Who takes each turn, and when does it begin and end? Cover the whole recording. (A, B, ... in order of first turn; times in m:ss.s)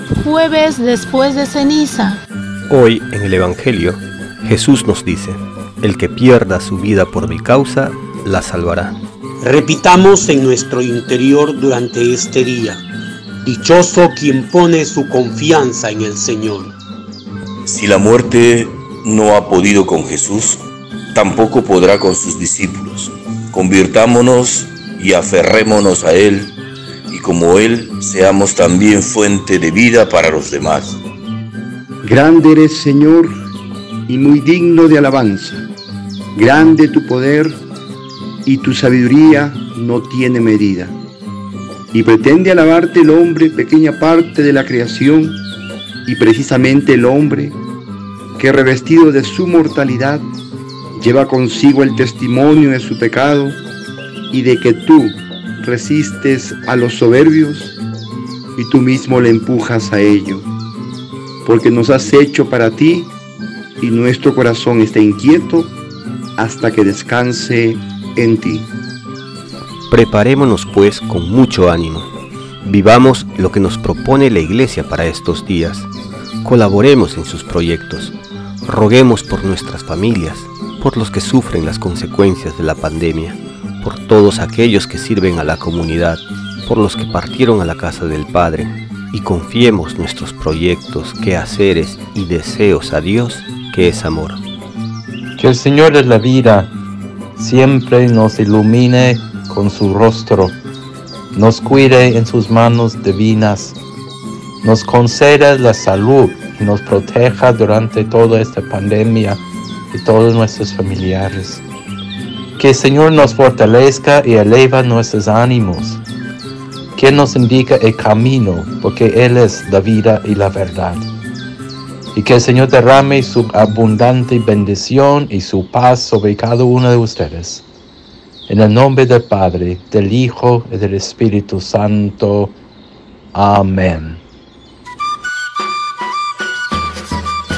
0:00.1-0:02.2 A
0:02.7-0:09.0 B
0:09.4-0:12.8 C
0:13.4-0:16.7 C
0:17.7-0:20.6 D
0:21.1-0:26.6 D
0:27.1-0:31.0 D
0:32.0-0:33.3 E
0:34.1-0:35.7 E
0:36.4-0:37.6 E
0:38.4-0:41.0 E
0:41.9-0:45.4 E
0:46.1-0:47.6 E
0:48.4-0:50.3 E
0:51.0-0:53.6 E
0:54.3-0:57.8 E
0:58.6-1:00.5 E
1:01.4-1:03.1 E
1:03.8-1:05.8 E
1:06.4-1:08.7 E
1:09.9-1:12.1 B
1:12.6-1:15.9 B
1:16.4-1:34.4 B
1:35.4-1:36.7 F
1:37.4-1:40.6 F
1:41.3-1:43.8 F
1:44.6-1:51.6 F
1:52.6-1:56.0 F
1:57.0-2:01.1 F
2:02.1-2:07.6 F
2:08.5-2:12.6 F
2:13.3-2:14.2 F